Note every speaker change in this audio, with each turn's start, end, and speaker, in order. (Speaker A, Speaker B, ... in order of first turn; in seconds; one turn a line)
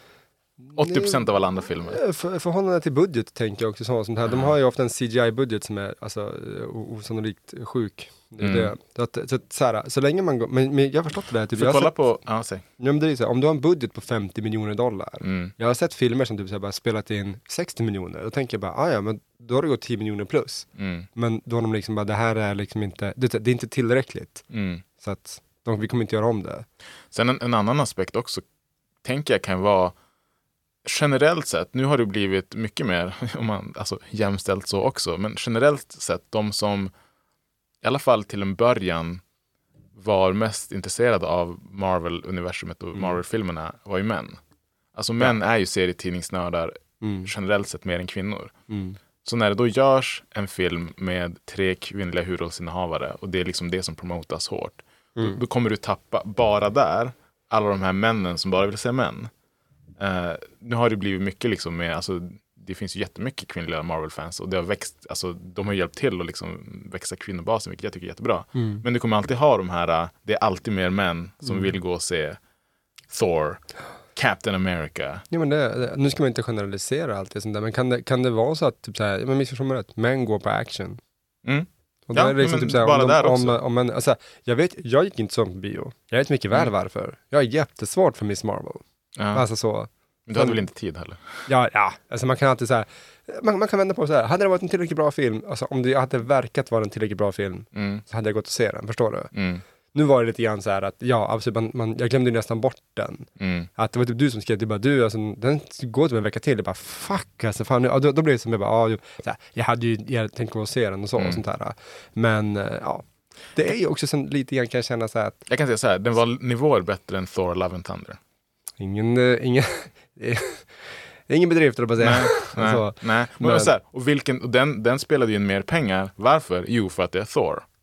Speaker A: 0.6-1.3
Speaker B: 0.8-2.0
Speaker A: 1.9-12.1
Speaker B: 4.3-4.5
Speaker B: 8.4-8.7
Speaker B: 11.5-12.6
Speaker A: 12.8-24.4
Speaker B: 15.2-15.5
Speaker B: 20.8-21.1
Speaker B: 24.5-24.8
Speaker A: 25.0-26.7
Speaker B: 27.1-28.4
Speaker B: 29.0-29.9
Speaker B: 30.8-36.9
Speaker B: 37.8-39.2
Speaker B: 40.0-44.4
Speaker B: 45.0-48.5
Speaker A: 47.0-47.3
Speaker A: 48.7-49.0
Speaker B: 49.2-59.3
Speaker B: 60.0-72.4
Speaker A: 68.5-68.8
Speaker A: 71.4-71.7
Speaker B: 73.1-73.6
Speaker B: 74.2-75.2
Speaker A: 75.3-81.0
Speaker B: 81.5-83.6
Speaker A: 82.1-90.7
Speaker B: 89.2-89.4
Speaker B: 90.3-91.5
Speaker A: 91.5-99.3
Speaker B: 97.7-98.0
Speaker B: 99.3-99.6
Speaker A: 99.9-115.4
Speaker B: 103.4-103.7
Speaker B: 111.2-111.4
Speaker B: 115.5-118.2
Speaker A: 118.8-123.7
Speaker B: 122.0-127.7